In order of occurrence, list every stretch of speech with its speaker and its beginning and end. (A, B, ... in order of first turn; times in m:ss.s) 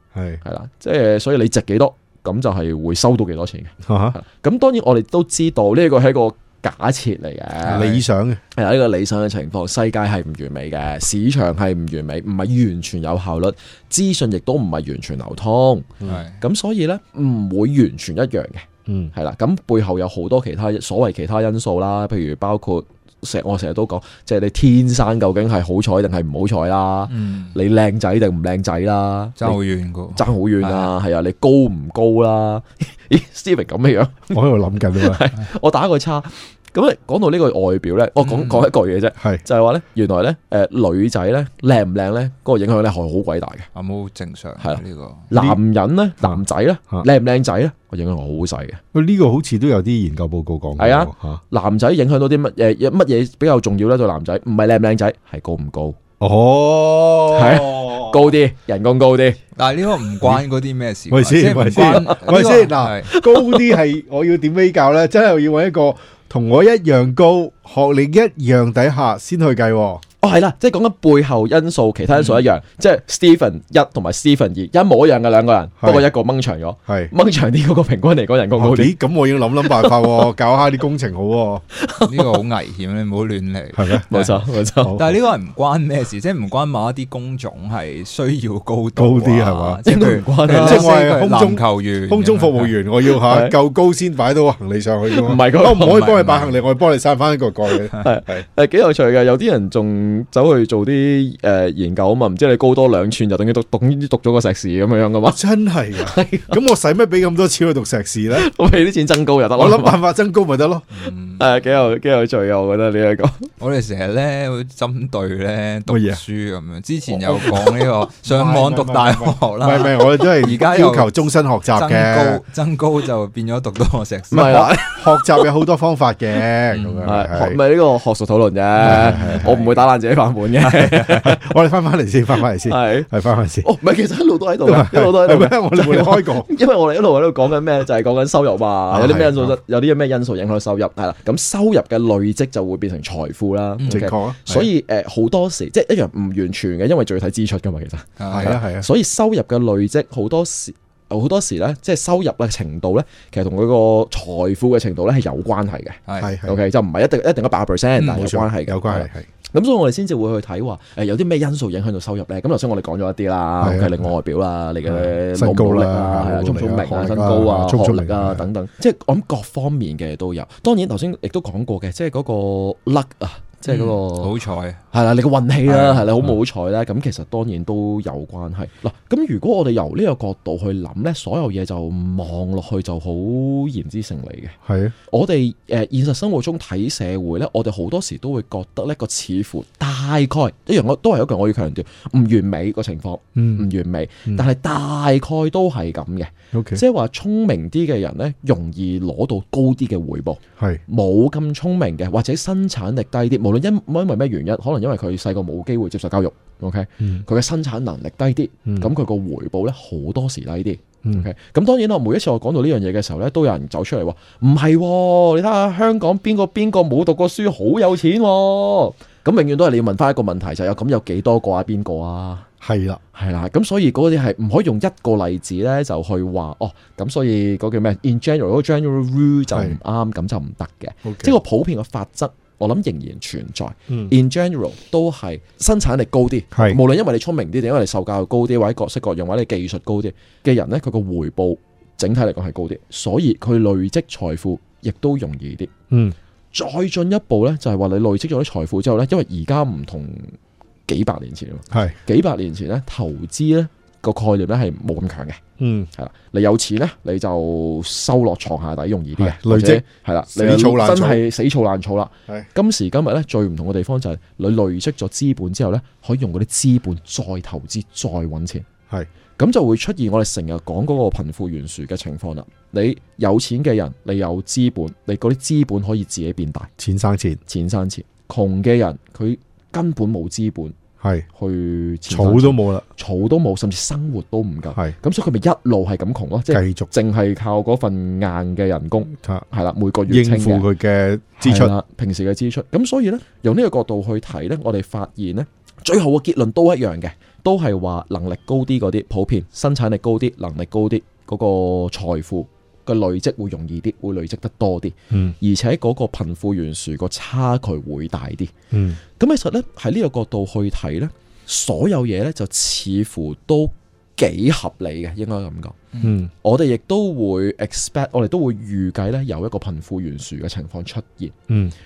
0:00.1-0:00.4 A
0:00.4-0:08.0 B
0:03.8-0:04.2 A
0:07.6-0:08.0 C
0:07.6-0:08.4 A
0:08.5-0:29.6 B
0:16.0-0:16.4 C
0:18.9-0:19.1 A
0:27.1-0:27.6 C
0:29.4-0:30.9 C
0:30.1-0:34.3 B
0:34.3-0:35.2 A
0:34.9-0:43.7 B
0:38.2-0:38.7 C
0:43.7-0:45.3 C
0:44.6-0:48.8 B
0:45.3-0:45.6 A
0:46.2-0:47.0 A
0:48.9-0:51.4 A
0:50.8-0:56.0 B
0:56.2-0:58.3 A
0:57.3-0:59.4 B
0:59.6-1:03.1 C
1:01.1-1:10.0 A
1:01.8-1:02.2 B
1:03.1-1:03.8 B
1:10.2-1:19.0 B
1:12.1-1:12.5 C
1:15.8-1:16.1 A
1:16.9-1:17.1 A
1:18.6-1:21.6 A
1:19.6-1:20.3 B
1:21.8-1:22.4 B
1:22.0-1:24.4 C
1:23.7-1:24.1 A
1:24.1-1:25.0 B
1:24.8-1:25.1 A
1:24.9-1:32.7 C
1:29.0-1:29.8 A
1:29.8-1:30.9 B
1:30.5-1:38.4 A
1:33.0-1:33.6 B
1:35.0-1:36.1 B
1:35.7-1:36.6 C
1:38.0-1:45.4 B
1:45.3-1:48.5 A
1:45.9-1:46.6 B
1:48.3-1:50.0 B
1:49.6-1:51.0 A
1:50.9-1:51.5 C
1:51.4-1:53.5 B
1:53.6-2:04.6 C
1:55.9-1:56.2 A
1:58.2-2:02.4 A
2:04.3-2:07.6 A
2:04.3-2:05.5 B
2:06.7-2:07.1 C
2:07.0-2:11.4 B
2:08.8-2:09.5 A
2:08.8-2:09.8 C
2:10.6-2:11.2 C
2:11.1-2:13.7 A
2:12.6-2:54.3 B
2:14.6-2:16.5 A
2:18.9-2:19.6 A
2:23.8-2:24.1 C
2:23.9-2:24.7 A
2:28.2-2:28.6 C
2:28.3-2:28.9 A
2:36.1-2:36.3 C
2:36.2-2:36.6 A
2:38.0-2:38.2 C
2:38.0-2:39.3 A
2:43.6-2:44.0 A
2:44.8-2:48.5 A
2:53.6-2:54.8 C
2:54.9-3:04.5 B
2:55.6-2:56.1 C
3:04.6-3:04.9 A
3:05.1-3:42.5 B
3:13.4-3:13.7 A
3:16.5-3:16.8 A
3:27.0-3:27.2 A
3:42.6-3:43.0 A
3:43.1-4:05.7 B
3:49.5-3:49.8 A
3:51.0-3:51.3 A
3:53.9-3:54.1 A
3:56.5-3:56.8 A
4:06.5-4:10.3 B
4:10.9-4:15.4 B
4:11.7-4:12.0 A
4:15.6-4:15.9 A
4:15.9-4:28.6 B
4:19.2-4:21.3 A
4:29.4-4:36.7 B
4:36.8-4:37.4 A
4:37.5-4:40.7 B
4:41.0-4:41.2 A
4:41.3-4:50.7 B
4:42.1-4:42.8 A
4:46.5-4:46.9 A
4:50.1-4:51.7 A
4:51.4-5:08.5 B
5:05.1-5:05.4 A
5:08.7-5:09.0 A
5:09.2-5:15.8 B
5:16.0-5:16.3 A
5:16.4-5:21.3 B